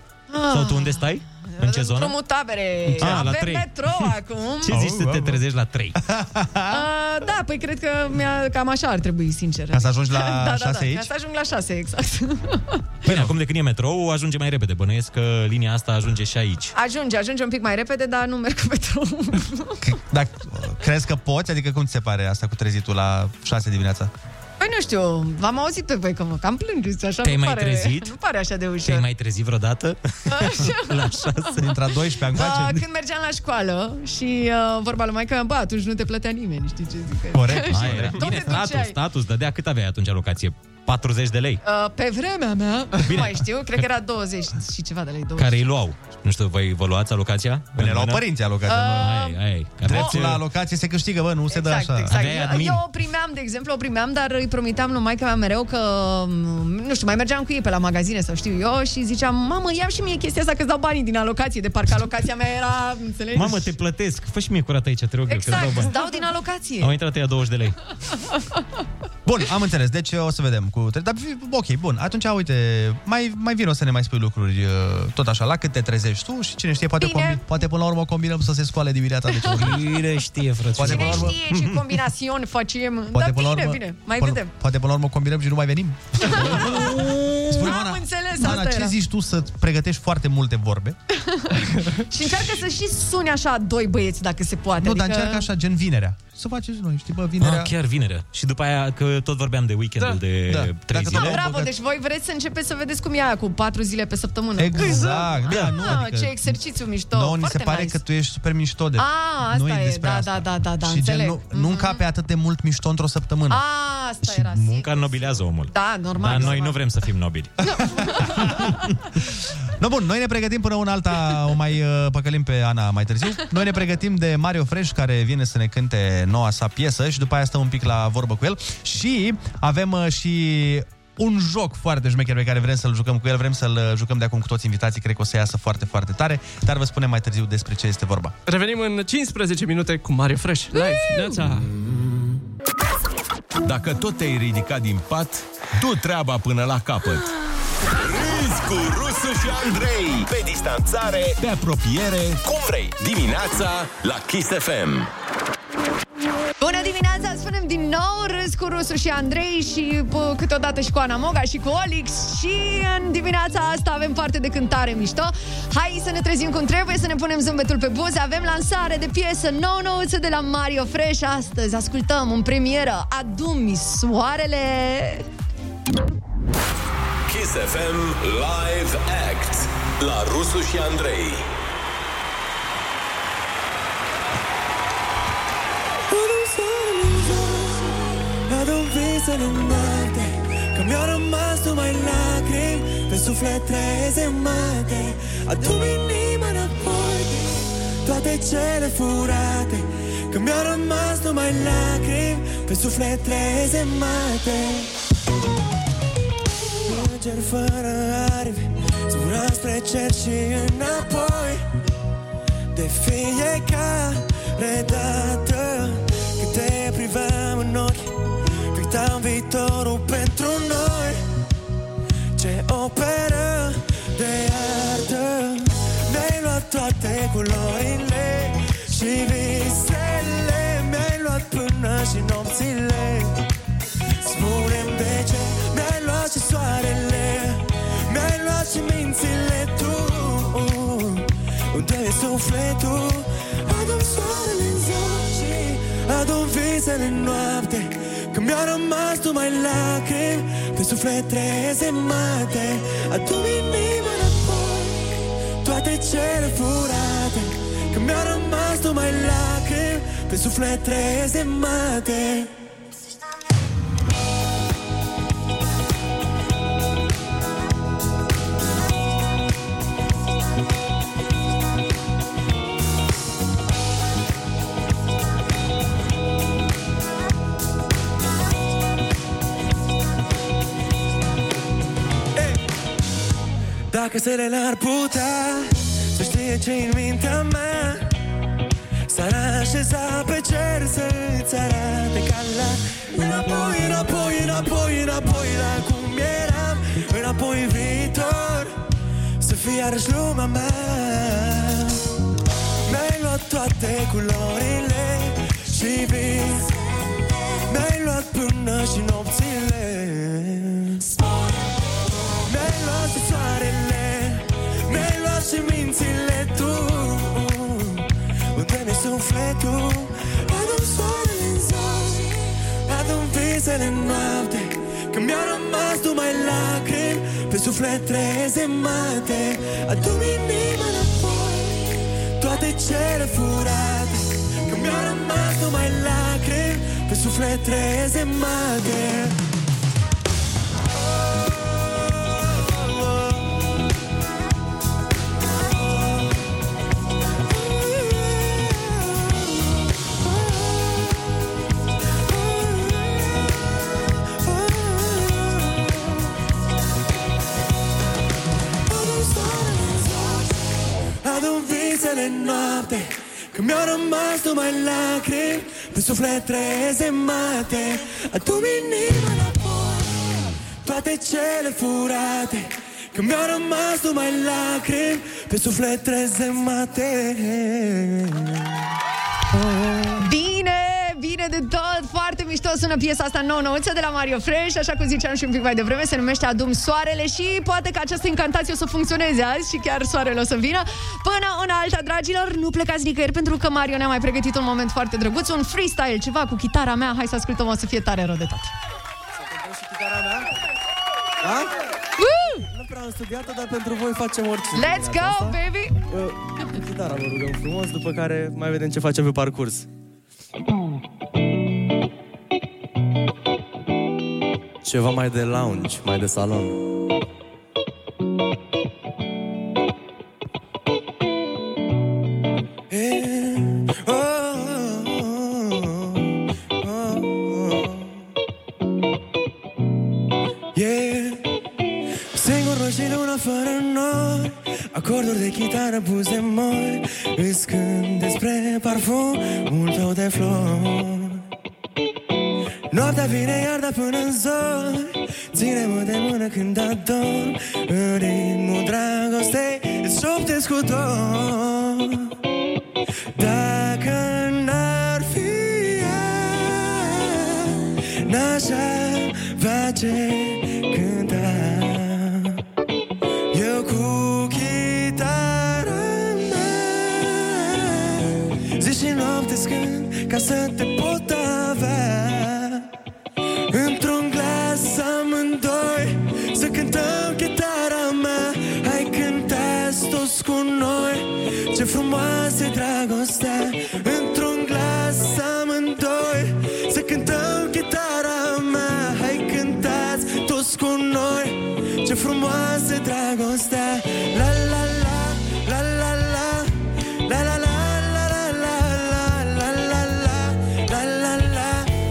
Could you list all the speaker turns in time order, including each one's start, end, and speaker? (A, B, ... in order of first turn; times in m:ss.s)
0:00.3-0:04.8 A
0:00.5-0:02.2 B
0:02.9-0:03.7 B
0:04.6-0:06.0 B
0:04.7-0:05.4 C
0:06.0-0:06.8 C
0:06.7-0:12.8 A
0:09.7-0:11.1 C
0:13.0-0:13.3 C
0:13.0-0:16.7 B
0:16.7-0:19.8 A
0:19.8-0:24.1 C
0:24.6-0:29.0 A
0:27.2-0:28.2 B
0:28.8-0:31.7 B
0:30.3-0:31.5 A
0:31.6-0:32.8 C
0:32.3-0:39.0 A
0:37.3-0:38.5 C
0:37.6-0:41.6 B
0:41.6-0:45.6 A
0:43.0-0:43.9 B
0:45.4-0:48.2 B
0:47.8-0:49.2 C
0:48.6-0:49.4 A
0:49.0-0:50.4 B
0:49.8-0:52.1 C
0:49.9-0:50.2 A
0:51.5-1:03.7 A
0:52.1-0:52.8 B
1:03.3-1:06.1 B
1:05.3-1:06.9 A
1:06.8-1:07.8 B
1:09.2-1:19.8 C
1:17.0-1:17.4 A
1:19.3-1:19.6 A
1:19.6-1:21.9 B
1:20.8-1:21.4 C
1:20.8-1:24.5 A
1:23.1-1:26.8 C
1:26.2-1:29.0 A
1:26.4-1:27.4 B
1:27.5-1:31.0 C
1:31.1-1:35.5 A
1:34.8-1:37.7 C
1:37.4-1:41.4 B
1:40.5-1:41.7 C
1:41.1-1:48.0 A
1:44.6-1:46.6 C
1:47.1-1:53.6 C
1:49.0-1:52.0 A
1:53.5-1:56.8 A
1:54.3-1:57.5 B
1:57.6-1:58.4 A
1:57.7-1:58.7 C
1:59.8-2:18.3 C
2:18.4-2:21.7 D
2:23.6-2:27.2 E
2:28.0-2:31.4 F
2:31.4-2:32.4 E
2:32.4-2:35.1 F
2:36.6-2:55.2 A
2:57.3-3:01.5 F
3:06.1-3:24.9 G
3:26.8-3:31.6 G
3:32.7-3:41.2 G
3:42.4-3:53.4 G
3:54.2-4:22.5 G
4:43.9-4:48.1 G
4:49.1-4:58.8 G
4:59.4-5:02.0 G
5:02.8-5:06.8 G
5:07.6-5:11.2 G
5:12.4-5:39.4 G
5:41.2-5:43.5 G
5:45.6-5:46.3 G
5:47.5-5:51.3 G
5:52.2-5:56.2 G
5:58.8-6:00.6 G
6:01.2-6:18.8 G
6:19.5-6:20.2 G
6:20.2-6:38.7 A
6:39.4-6:40.5 G
6:41.4-6:41.7 G
6:42.2-6:42.6 A
6:42.7-6:49.9 G
6:44.7-6:46.0 A
6:54.8-6:56.8 G
7:02.9-7:08.2 G
7:10.7-7:11.4 G
7:12.3-7:21.4 G
7:22.9-7:32.3 G
7:33.3-7:42.6 G
7:43.5-7:52.9 G
7:53.7-8:21.9 G